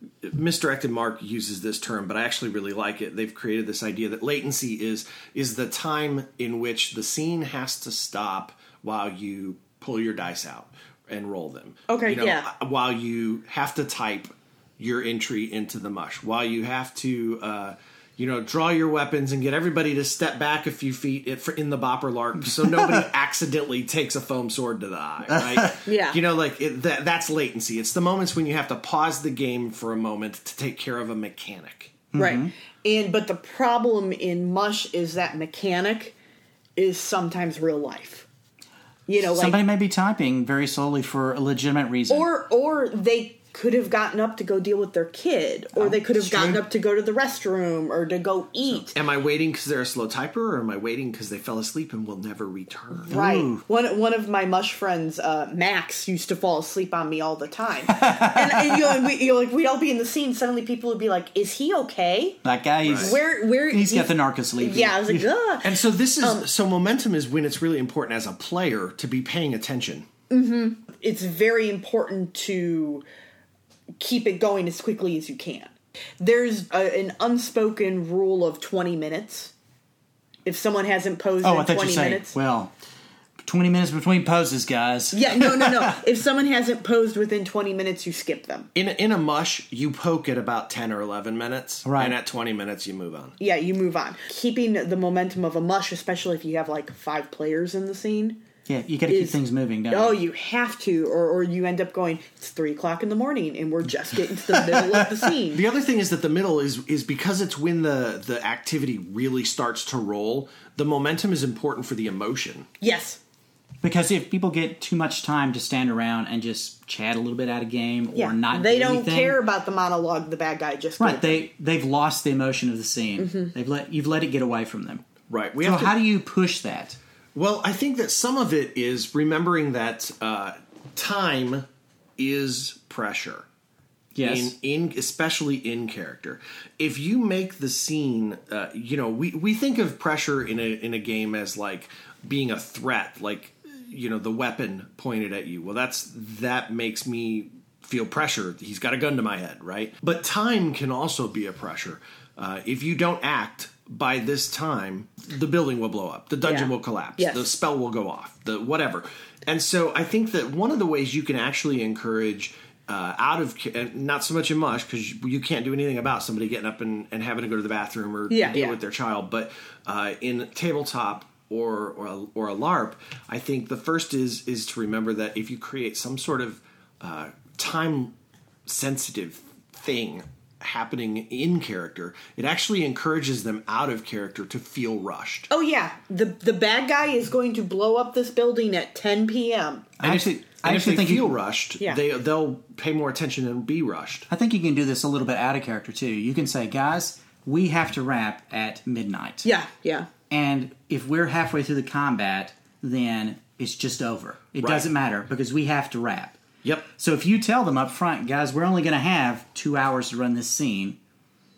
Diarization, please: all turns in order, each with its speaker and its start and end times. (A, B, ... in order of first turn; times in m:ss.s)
0:00.2-0:32.0 A
0:11.9-0:12.5 B
0:22.5-0:23.0 C
0:25.3-0:25.8 C
0:25.8-0:26.2 B
0:32.1-0:32.5 C
0:32.2-0:36.1 B
0:36.8-0:38.3 B
0:39.1-0:39.6 B
0:39.2-0:42.3 C
0:42.1-0:49.0 B
0:45.8-0:46.6 C
0:48.9-0:53.2 A
0:53.1-1:02.4 B
0:53.1-0:53.6 C
0:57.9-0:59.0 C
1:02.4-1:05.3 C
1:02.8-1:03.1 A
1:02.9-1:06.4 B
1:05.6-1:10.1 A
1:10.3-1:13.0 B
1:14.0-1:19.5 B
1:20.4-1:22.4 B
1:21.4-1:22.7 C
1:23.4-1:26.0 C
1:25.1-1:28.7 B
1:28.8-1:33.4 A
1:31.8-1:32.2 C
1:33.4-1:38.4 B
1:38.7-1:40.2 C
1:39.1-1:45.6 B
1:44.6-1:45.1 C
1:45.5-1:52.7 A
1:52.8-1:53.2 B
1:53.8-1:59.4 C
1:58.1-2:01.4 B
2:01.0-2:05.0 C
2:03.2-2:03.5 B
2:05.3-2:06.0 A
2:05.6-2:07.0 C
2:07.4-2:11.7 A
2:12.2-2:13.5 A
2:14.1-2:14.5 C
2:14.2-2:58.1 A
2:36.4-2:37.5 B
2:48.3-2:48.8 B
2:58.7-3:05.5 A
3:05.5-3:09.9 B
3:10.0-3:11.4 C
3:10.0-3:14.3 A
3:14.3-3:19.5 C
3:19.4-3:20.1 B
3:20.3-3:26.4 C
3:24.6-3:24.9 A
3:26.9-3:31.0 C